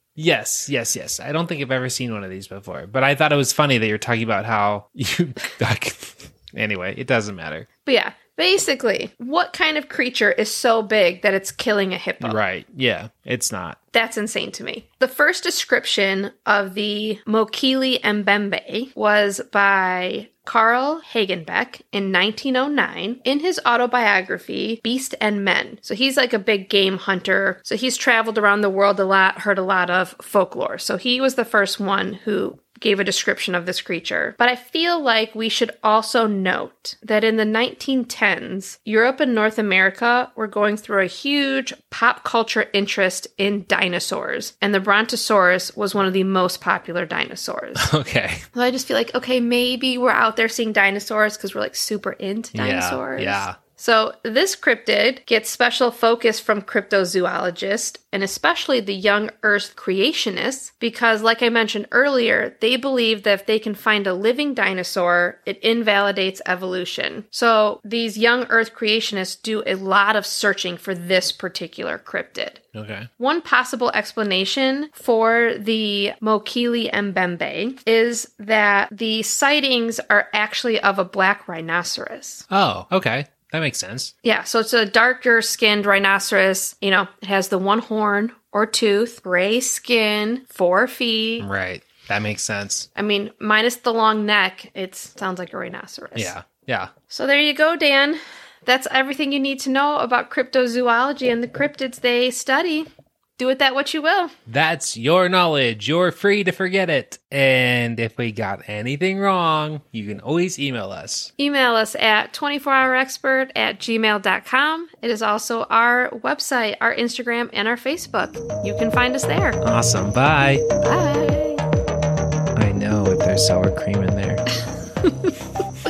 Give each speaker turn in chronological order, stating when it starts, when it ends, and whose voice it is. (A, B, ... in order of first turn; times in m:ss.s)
0:00.2-0:07.7 A
0:07.9-0:12.4 B
0:12.2-0:13.8 A
0:13.9-0:47.9 B
0:47.8-0:48.4 A
0:48.5-1:12.6 B
0:52.5-0:53.6 A
1:12.7-1:13.1 A
1:13.2-1:22.5 B
1:22.5-1:24.1 A
1:24.2-1:31.5 B
1:31.4-1:32.9 A
1:33.0-1:36.3 B
1:36.2-1:36.9 A
1:37.1-1:42.9 B
1:43.4-1:44.3 B
1:44.5-1:51.3 A
1:51.4-1:59.6 B
1:59.6-2:00.6 A
2:00.8-2:01.6 B
2:02.6-2:04.4 A
2:05.0-2:05.3 B